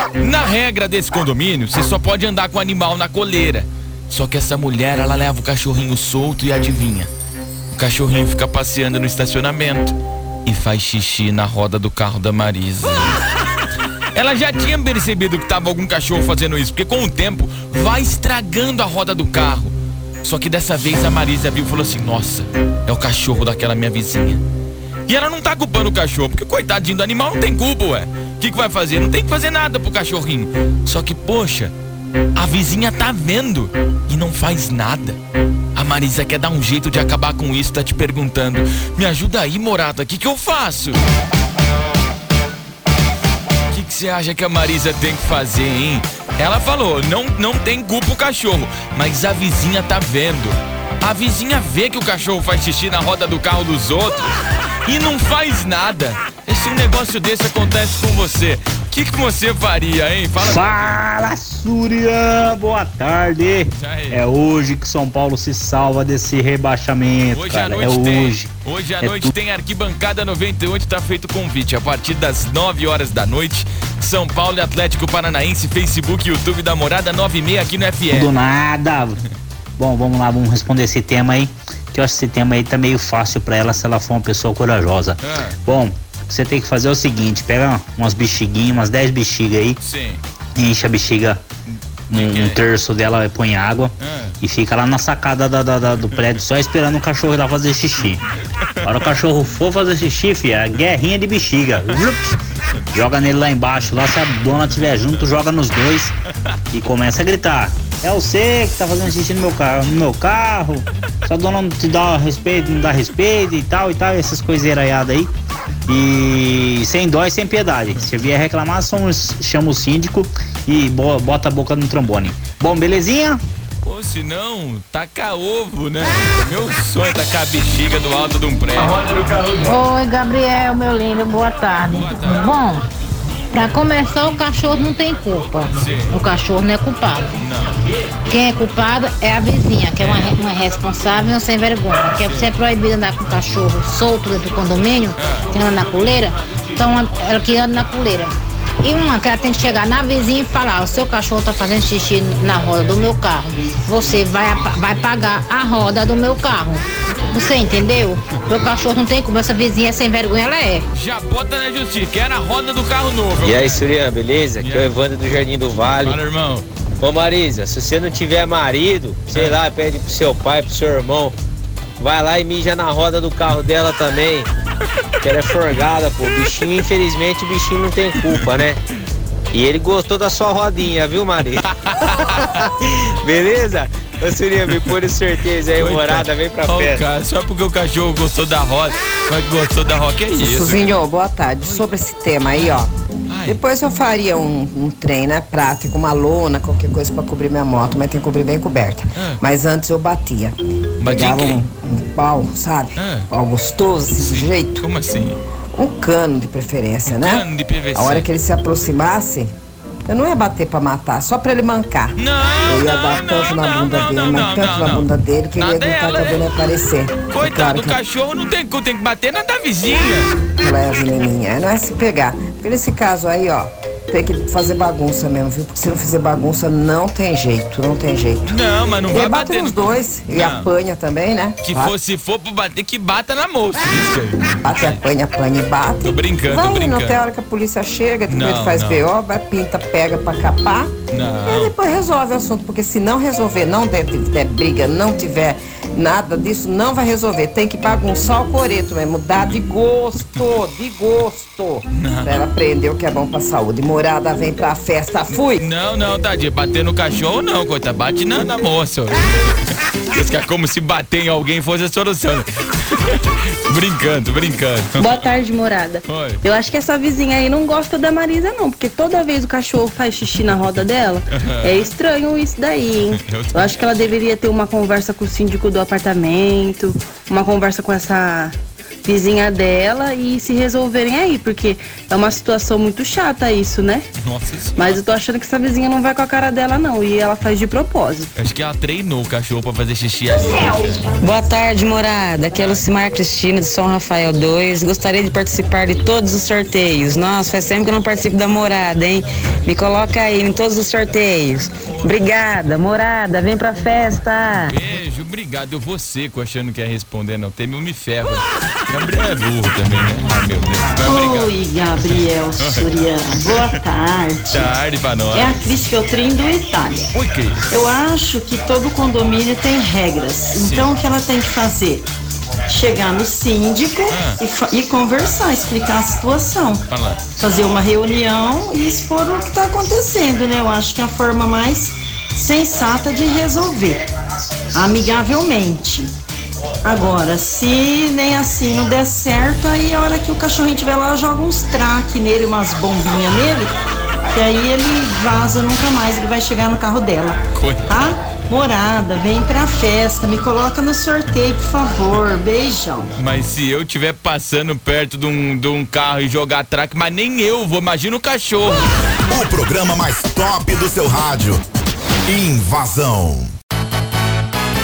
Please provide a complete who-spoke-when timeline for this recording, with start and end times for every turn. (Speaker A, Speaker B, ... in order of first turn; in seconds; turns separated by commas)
Speaker A: 0.2-7.1, Speaker A: 7.8-13.2, Speaker A: 14.1-24.4, Speaker A: 25.1-31.7, Speaker A: 32.3-35.2, Speaker A: 35.7-41.0, Speaker A: 43.7-54.3, Speaker A: 54.9-61.0, Speaker B: 60.4-68.5, Speaker A: 63.8-64.2, Speaker A: 67.3-78.3, Speaker B: 69.0-69.3, Speaker B: 78.1-79.2, Speaker B: 79.8-89.8, Speaker A: 85.2-85.5, Speaker A: 89.8-90.2, Speaker B: 90.5-91.4, Speaker A: 91.7-92.6, Speaker B: 92.1-98.2, Speaker A: 94.0-94.3, Speaker A: 98.6-99.0, Speaker B: 98.8-106.1, Speaker B: 106.7-115.3, Speaker B: 115.9-123.4, Speaker A: 123.8-129.5, Speaker C: 129.6-132.8, Speaker A: 131.7-132.6, Speaker C: 133.5-137.3, Speaker A: 135.7-136.2, Speaker A: 137.4-137.8, Speaker C: 138.3-160.8, Speaker A: 140.0-140.3, Speaker A: 142.2-142.5, Speaker A: 145.2-145.5, Speaker A: 160.9-163.8, Speaker D: 163.4-166.2, Speaker A: 164.6-164.9, Speaker A: 166.0-166.7, Speaker D: 167.0-171.3, Speaker A: 169.3-169.6, Speaker D: 172.0-174.5, Speaker D: 175.2-178.8, Speaker D: 179.5-181.6, Speaker A: 181.8-182.6, Speaker D: 182.8-187.0, Speaker A: 185.8-190.9, Speaker E: 190.3-192.9, Speaker A: 191.6-191.9, Speaker A: 192.5-193.6, Speaker E: 193.5-204.8, Speaker A: 201.0-201.6, Speaker A: 202.9-203.3, Speaker A: 204.1-205.4, Speaker E: 205.7-209.5, Speaker A: 207.0-208.3, Speaker E: 210.1-218.0, Speaker A: 212.2-216.5, Speaker A: 217.3-220.3, Speaker E: 220.5-231.9, Speaker A: 228.4-230.7, Speaker A: 231.6-235.0, Speaker E: 234.6-240.9, Speaker A: 236.0-237.2, Speaker A: 238.3-239.1, Speaker A: 241.1-241.7, Speaker E: 241.4-255.6, Speaker A: 251.9-252.4, Speaker A: 255.3-259.3, Speaker A: 260.1-262.5, Speaker A: 263.1-265.1, Speaker F: 265.0-284.0, Speaker A: 266.1-266.4, Speaker A: 271.4-271.7, Speaker A: 273.1-274.1, Speaker A: 284.2-284.9, Speaker F: 284.8-288.3, Speaker A: 288.4-291.1, Speaker G: 291.2-304.7, Speaker A: 304.6-313.0, Speaker H: 310.9-314.7, Speaker A: 313.5-313.8, Speaker A: 314.5-315.7, Speaker H: 315.3-317.1, Speaker A: 317.1-317.6, Speaker H: 317.7-322.1, Speaker A: 320.5-320.9, Speaker H: 322.7-334.1, Speaker A: 324.1-324.4, Speaker A: 326.9-327.2, Speaker H: 334.7-336.1, Speaker H: 336.8-343.8, Speaker H: 344.3-353.1, Speaker A: 347.5-347.8, Speaker A: 353.2-358.8, Speaker I: 359.3-361.6, Speaker I: 362.3-363.5